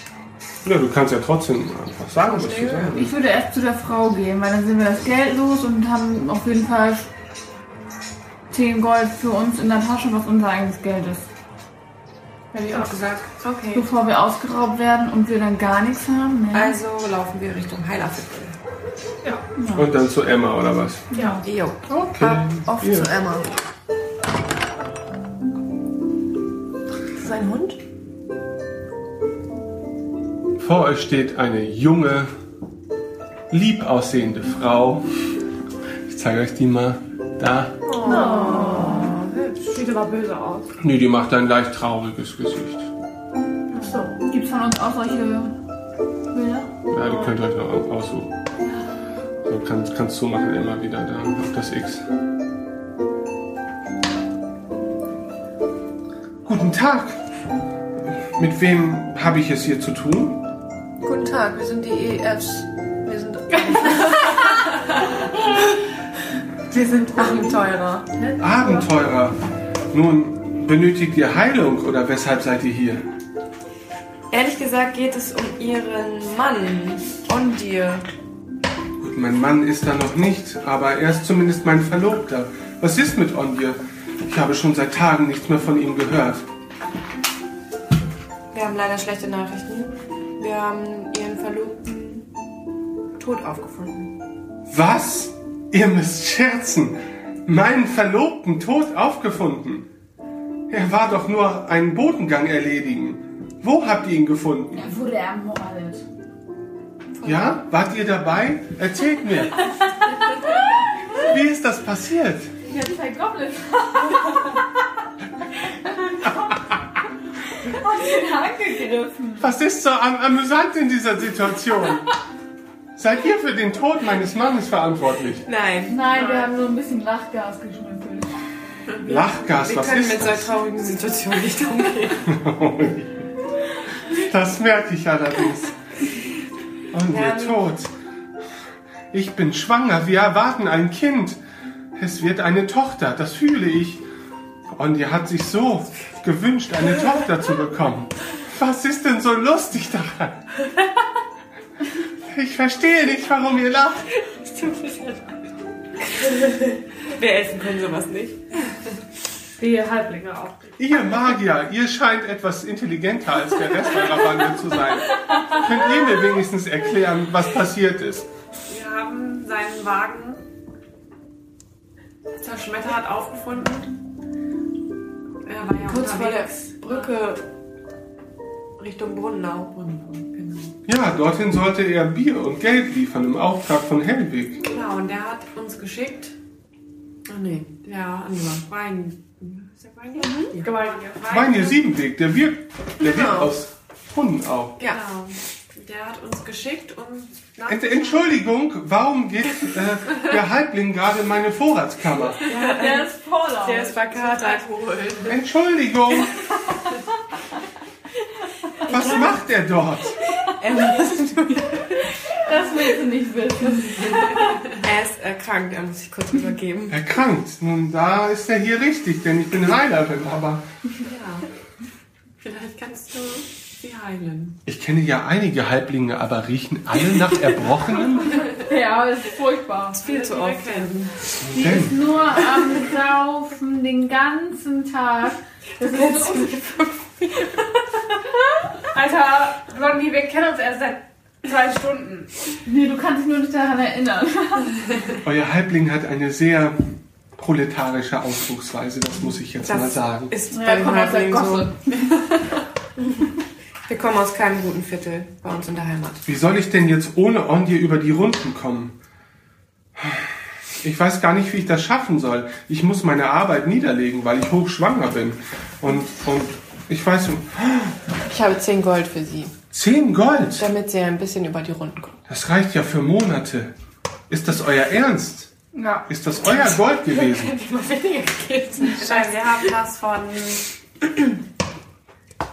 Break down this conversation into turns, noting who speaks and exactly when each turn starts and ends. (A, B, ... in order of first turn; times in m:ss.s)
0:00.6-0:03.1 A
0:02.2-0:03.0 B
0:03.0-0:07.1 C
0:08.5-0:11.3 C
0:12.5-0:13.9 B
0:13.7-0:16.8 C
0:16.5-0:18.6 B
0:19.3-0:19.9 C
0:19.7-0:21.1 A
0:21.1-0:21.4 C
0:21.4-0:23.5 B
0:22.1-0:23.1 A
0:27.2-0:27.8 B
0:30.6-0:32.3 A
0:33.5-0:35.0 A
0:36.1-0:37.8 A
0:37.9-0:39.8 B
0:38.0-0:39.1 C
0:38.0-0:39.0 D
0:40.8-0:42.9 A
0:43.8-0:45.6 C
0:46.3-0:46.7 C
0:46.9-0:48.3 A
0:49.4-0:52.0 A
0:56.4-0:57.2 A
0:58.4-1:00.4 A
1:01.0-1:04.8 B
1:03.7-1:04.5 C
1:06.7-1:08.1 B
1:08.2-1:08.8 C
1:08.4-1:09.4 A
1:09.9-1:13.1 A
1:14.3-1:18.1 B
1:19.0-1:26.5 A
1:28.5-1:32.2 B
1:33.2-1:34.1 B
1:34.7-1:39.9 A
1:40.7-1:44.9 A
1:44.7-1:46.1 C
1:47.2-1:47.6 B
1:47.2-1:49.6 A
1:51.1-1:52.5 A
1:52.7-1:54.6 C
1:55.7-1:56.5 C
1:57.6-1:59.5 C
1:59.4-2:02.1 A
2:03.0-2:05.4 A
2:05.5-2:06.5 B
2:05.9-2:08.4 C
2:09.0-2:10.5 A
2:09.5-2:12.2 B
2:12.2-2:13.3 A
2:14.0-2:15.8 A
2:16.9-2:17.9 A
2:17.1-2:17.6 B
2:19.1-2:21.4 A
2:22.0-2:24.0 A
2:24.7-2:30.4 A
2:32.3-2:34.1 A
2:34.2-2:35.3 B
2:37.0-2:38.4 B
2:39.6-2:40.2 C
2:40.8-2:48.3 A
2:48.7-2:50.4 D
2:52.4-2:54.0 D
2:55.4-2:57.3 D
2:55.8-2:57.4 B
2:58.8-3:00.7 D
3:00.9-3:04.6 A
3:04.6-3:06.3 D
3:07.3-3:11.8 D
3:10.2-3:10.5 B
3:10.6-3:11.0 C
3:11.3-3:14.8 A
3:13.0-3:13.5 B
3:14.8-3:18.3 D
3:17.7-3:22.4 A
3:22.5-3:24.1 C
3:22.5-3:24.7 B
3:22.5-3:23.1 D
3:23.9-3:25.4 D
3:25.3-3:26.4 A
3:28.9-3:30.2 A
3:28.9-3:29.2 D
3:30.6-3:32.0 B
3:31.8-3:34.4 C
3:34.8-3:37.0 B
3:36.9-3:40.6 A
3:41.0-3:41.5 D
3:42.4-3:44.6 D
3:44.7-3:48.5 A
3:48.5-3:50.0 C
3:50.0-3:51.0 B
3:50.0-3:51.2 D
3:51.4-3:52.0 A
3:51.5-3:56.8 C
3:55.8-3:57.6 B
3:59.0-3:59.7 C
4:02.6-4:04.8 C
4:05.2-4:10.3 A
4:09.7-4:11.7 B
4:10.5-4:12.1 C
4:13.9-4:16.2 B
4:16.2-4:19.0 A
4:20.0-4:20.3 A
4:20.8-4:27.9 A
4:28.3-4:29.6 B
4:29.7-4:30.7 A
4:30.6-4:32.2 B
4:32.3-4:33.8 A
4:34.3-4:35.5 A
4:35.7-4:36.1 C
4:36.1-4:37.5 A
4:37.3-4:40.5 D
4:38.2-4:40.6 B